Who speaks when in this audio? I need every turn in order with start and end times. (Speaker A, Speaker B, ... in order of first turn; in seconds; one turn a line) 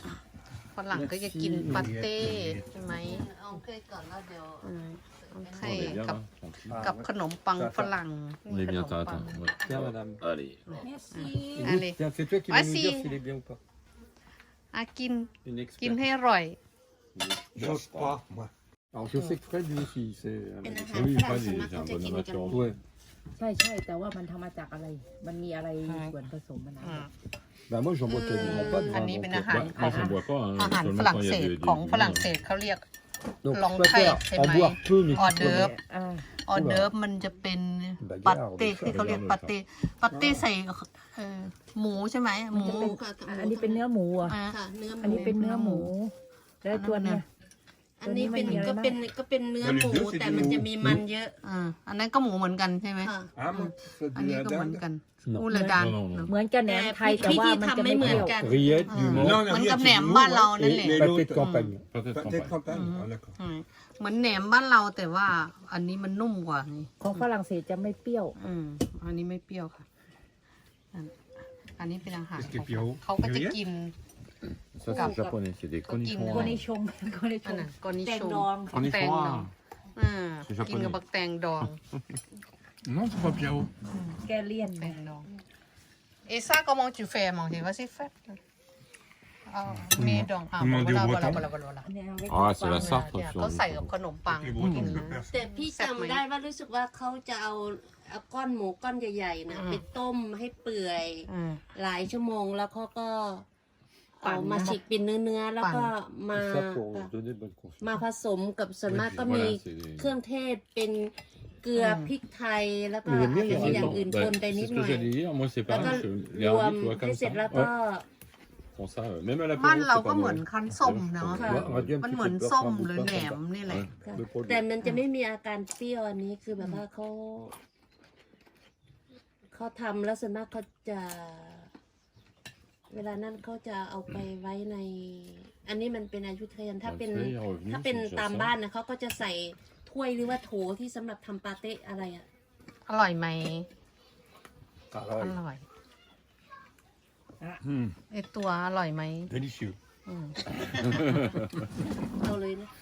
Speaker A: 0.7-3.3
Speaker B: 0.9-2.0
Speaker C: 1.7-2.7
Speaker D: 2.9-4.7
Speaker A: 4.6-6.2
Speaker D: 5.3-6.0
Speaker E: 5.6-6.9
Speaker B: 6.7-7.9
Speaker A: 6.8-9.5
Speaker E: 8.5-10.8
Speaker B: 9.6-10.2
Speaker A: 10.7-13.2
Speaker F: 10.8-11.7
Speaker B: 11.5-13.6
Speaker A: 14.7-16.6
Speaker B: 15.4-16.0
Speaker E: 17.2-18.2
Speaker C: 17.6-18.5
Speaker B: 18.9-21.2
Speaker D: 20.6-22.6
Speaker E: 20.9-22.8
Speaker B: 22.5-22.8
Speaker F: 23.4-27.1
Speaker A: 25.8-26.2
Speaker A: 26.8-27.1
Speaker B: 27.7-29.5
Speaker D: 28.1-29.0
Speaker E: 28.4-32.3
Speaker A: 28.9-32.8
Speaker F: 29.7-30.2
Speaker B: 33.4-35.7
Speaker A: 33.5-35.8
Speaker F: 35.2-36.3
Speaker A: 36.4-43.0
Speaker B: 36.5-36.9
Speaker B: 38.0-39.0
Speaker E: 38.9-39.5
Speaker F: 42.5-44.4
Speaker D: 42.6-43.9
Speaker A: 44.2-44.6
Speaker D: 44.5-45.4
Speaker F: 45.0-47.2
Speaker A: 45.2-45.9
Speaker A: 46.7-47.2
Speaker D: 48.0-51.4
Speaker F: 48.0-49.0
Speaker C: 49.6-51.0
Speaker A: 51.4-56.3
Speaker D: 53.0-53.4
Speaker C: 53.3-54.8
Speaker B: 55.2-55.5
Speaker F: 55.5-58.4
Speaker E: 55.8-56.3
Speaker D: 56.6-58.9
Speaker B: 58.2-59.5
Speaker A: 58.9-61.8
Speaker E: 58.9-59.4
Speaker C: 59.1-61.5
Speaker B: 60.7-61.8
Speaker E: 61.9-62.6
Speaker C: 62.1-63.4
Speaker A: 62.7-67.2
Speaker F: 67.0-68.3
Speaker A: 68.3-69.8
Speaker A: 71.8-74.0
Speaker C: 72.4-73.6
Speaker E: 74.8-76.6
Speaker F: 74.8-75.4
Speaker A: 74.9-75.2
Speaker A: 75.8-76.6
Speaker F: 76.3-78.8
Speaker A: 77.4-81.8
Speaker E: 78.7-79.5
Speaker E: 80.4-81.0
Speaker C: 82.8-83.7
Speaker F: 84.1-85.0
Speaker A: 84.7-85.3
Speaker A: 86.3-88.4
Speaker A: 89.5-91.9
Speaker C: 90.0-91.4
Speaker F: 91.8-93.0
Speaker E: 92.3-94.0
Speaker A: 92.6-96.2
Speaker C: 94.3-95.4
Speaker D: 95.3-103.5
Speaker A: 99.5-99.8
Speaker A: 101.3-101.7
Speaker D: 104.2-107.1
Speaker A: 104.2-104.8
Speaker A: 105.6-105.9
Speaker B: 106.3-107.8
Speaker D: 107.8-118.1
Speaker E: 108.8-110.1
Speaker A: 111.8-112.1
Speaker B: 113.1-114.0
Speaker E: 113.3-117.7
Speaker E: 118.7-122.0
Speaker A: 119.5-123.9
Speaker D: 121.3-121.7
Speaker B: 121.4-123.4
Speaker D: 124.0-127.5
Speaker B: 124.1-124.6
Speaker D: 129.5-131.7
Speaker D: 132.9-142.3
Speaker E: 136.8-138.5
Speaker A: 142.9-143.7
Speaker B: 144.9-145.4
Speaker A: 145.2-145.7
Speaker C: 147.6-148.0
Speaker A: 148.1-149.3
Speaker C: 149.3-149.8
Speaker A: 150.1-150.3
Speaker E: 151.0-151.4
Speaker D: 152.2-152.7